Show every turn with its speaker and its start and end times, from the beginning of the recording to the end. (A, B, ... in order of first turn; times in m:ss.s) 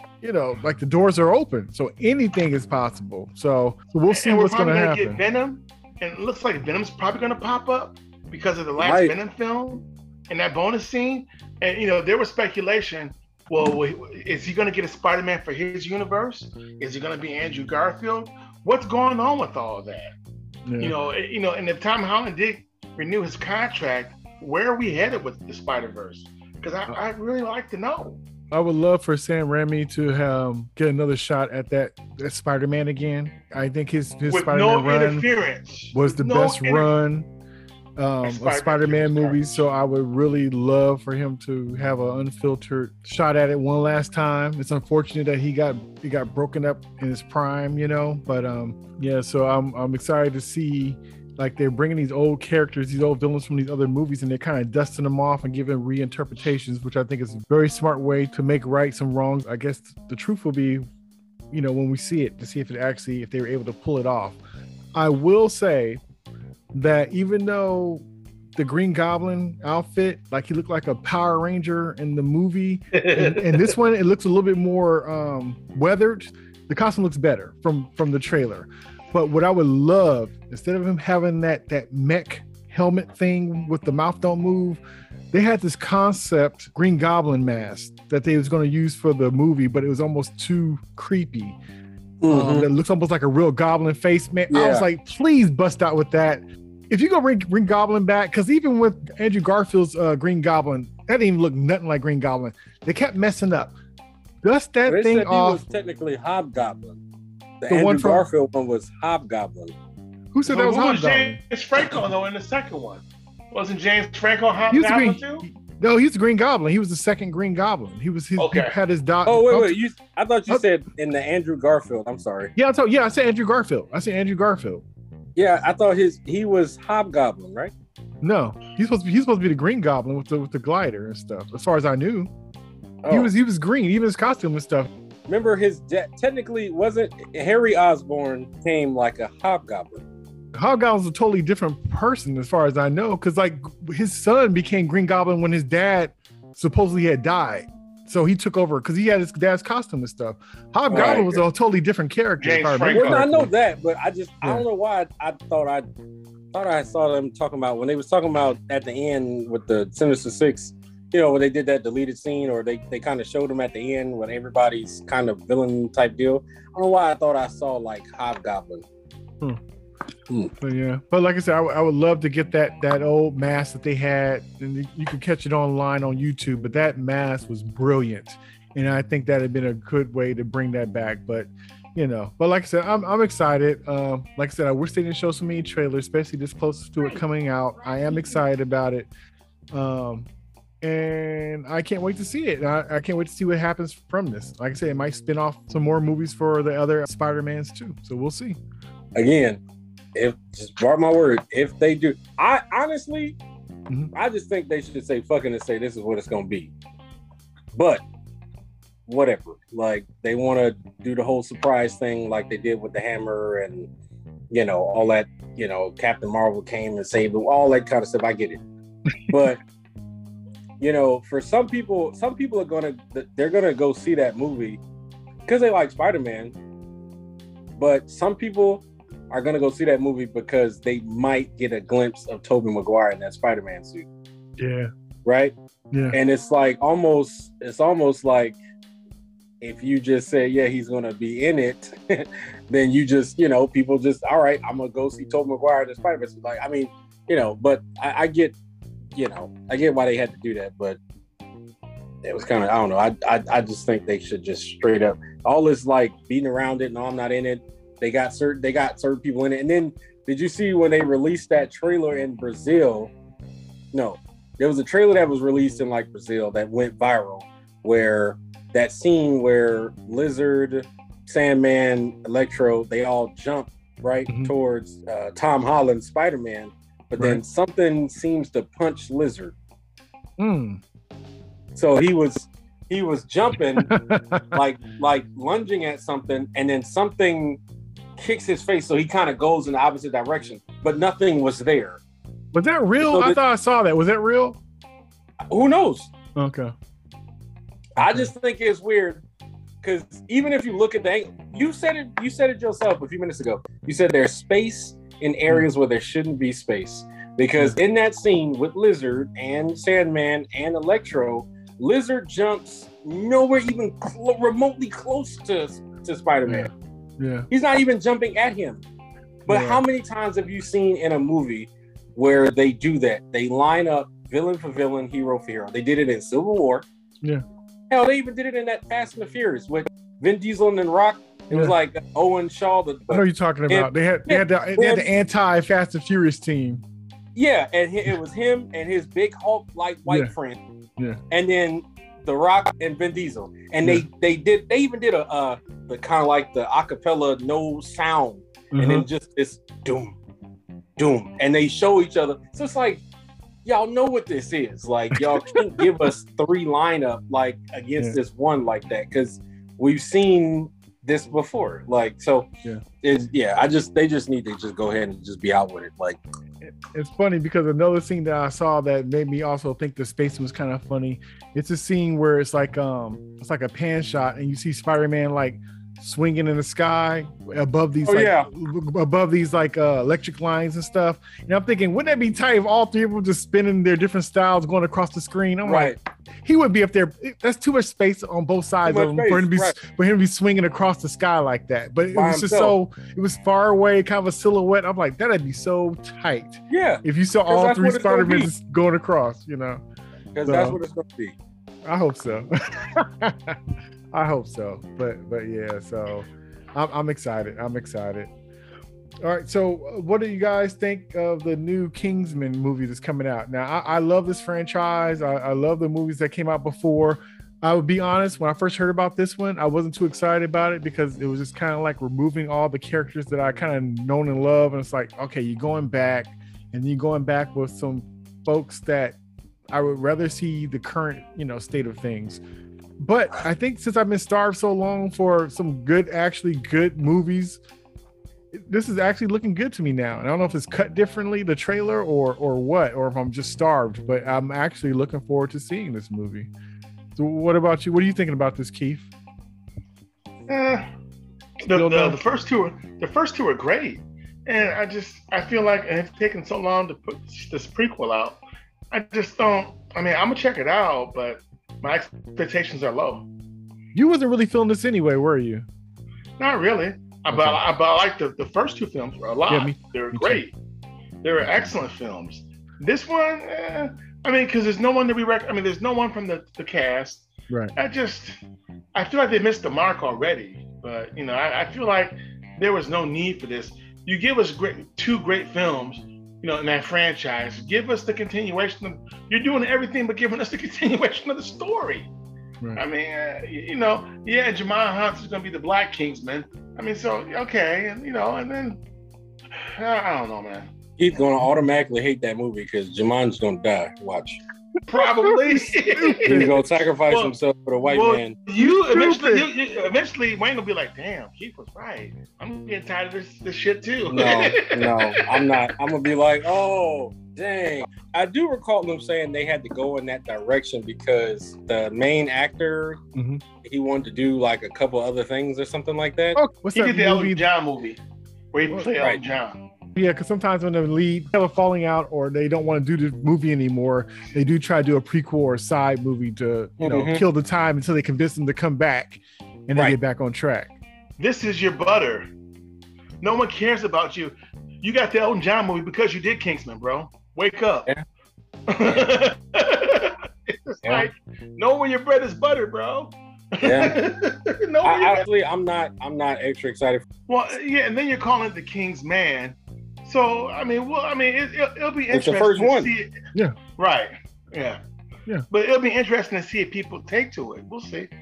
0:00.2-0:05.2 A
0:04.1-0:20.1 B
0:08.8-0:09.1 C
0:20.6-0:21.0 A
0:20.8-0:28.2 B
0:28.5-0:35.2 A
0:34.3-0:36.9 B
0:35.9-0:37.3 A
0:38.0-1:00.8 A
0:38.2-0:39.6 B
1:01.5-1:04.4 A
1:04.9-1:06.0 A
1:06.7-1:24.8 A
1:12.9-1:13.7 B
1:25.3-1:31.6 A
1:32.2-1:32.7 C
1:32.3-1:43.7 A
1:34.5-1:34.8 C
1:44.4-1:45.6 A
1:44.9-1:47.0 C
1:47.6-1:49.7 C
1:47.7-1:48.2 A
1:50.3-1:51.4 A
1:50.4-1:55.4 B
1:54.7-1:59.8 A
1:58.4-1:58.7 B
1:59.2-2:02.5 C
2:02.6-2:04.8 A
2:05.4-2:07.7 C
2:08.2-2:12.3 A
2:13.0-2:13.3 C
2:13.1-2:14.9 A
2:15.3-2:20.0 C
2:20.5-2:33.5 A
2:30.9-2:31.4 C
2:30.9-2:31.3 B
2:32.4-2:33.3 B
2:32.9-2:35.9 C
2:36.5-2:48.8 C
2:50.6-3:09.1 A
3:09.7-3:10.3 A
3:10.8-3:18.6 A
3:19.1-3:19.6 C
3:20.1-3:23.4 C
3:24.1-3:26.7 C
3:27.7-3:28.0 C
3:29.0-3:33.9 C
3:34.5-3:38.6 C
3:39.3-3:39.6 C
3:40.8-3:44.8 C
3:45.4-3:46.5 C
3:47.8-3:54.1 C
3:54.6-3:54.9 A
3:55.2-3:55.5 C
3:55.9-3:56.2 A
3:56.1-3:58.6 C
3:59.6-4:08.6 C
4:09.2-4:11.0 C
4:12.2-4:23.1 C
4:23.9-4:39.6 C
4:40.4-4:40.8 A
4:41.8-4:43.9 C
4:43.8-4:44.6 A
4:44.5-4:47.6 C
4:48.2-4:52.0 C
4:52.5-4:54.6 A
4:53.0-4:53.4 C
4:55.5-4:56.1 C
4:56.4-4:56.7 A
4:58.0-4:59.2 C
4:58.0-4:58.3 A
4:59.8-5:16.7 C
5:16.4-5:17.5 A
5:17.5-5:18.8 C
5:19.4-5:26.8 C
5:19.5-5:19.8 A
5:27.9-5:35.1 C
5:33.1-5:36.8 A
5:37.4-5:40.6 C
5:41.3-5:50.2 C
5:48.7-5:49.0 A
5:51.0-5:53.0 C
5:53.6-6:02.5 C
5:55.2-5:55.6 A
6:03.0-6:06.2 C
6:06.6-6:39.8 A
6:18.0-6:18.5 C
6:25.6-6:26.0 C
6:28.8-6:29.8 C
6:32.1-6:32.8 C
6:36.7-6:38.5 C
6:40.3-6:41.4 C
6:40.4-6:40.8 A
6:41.8-6:43.6 A
6:44.1-6:48.3 A
6:49.2-7:09.2 A
7:09.7-7:12.4 A
7:13.0-7:17.6 A
7:18.5-7:26.5 A
7:27.2-7:29.1 A
7:30.5-7:30.9 B
7:31.6-7:43.3 B
7:31.6-7:32.2 A
7:43.9-7:45.6 A
7:46.4-7:50.5 B
7:47.3-7:47.6 A
7:49.5-7:50.4 A
7:51.2-7:58.4 B
7:58.9-8:12.1 B
8:12.8-8:18.8 B
8:19.6-8:20.7 B
8:21.0-8:24.4 C
8:24.9-8:35.5 B
8:25.2-8:26.8 A
8:26.2-8:28.4 C
8:28.6-8:29.5 A
8:34.0-8:43.0 C
8:43.1-8:43.4 A
8:43.6-8:46.4 C
8:46.4-8:47.4 A
8:46.7-8:48.0 B
8:48.5-8:49.6 B
8:49.9-9:00.7 A
8:56.8-8:57.2 C
9:01.2-9:02.3 B
9:03.2-9:07.9 B
9:08.7-9:15.2 B
9:13.6-9:14.0 C
9:14.8-9:17.0 C
9:17.3-9:23.2 B
9:22.1-9:22.9 C
9:23.8-9:24.8 B
9:25.5-9:28.1 B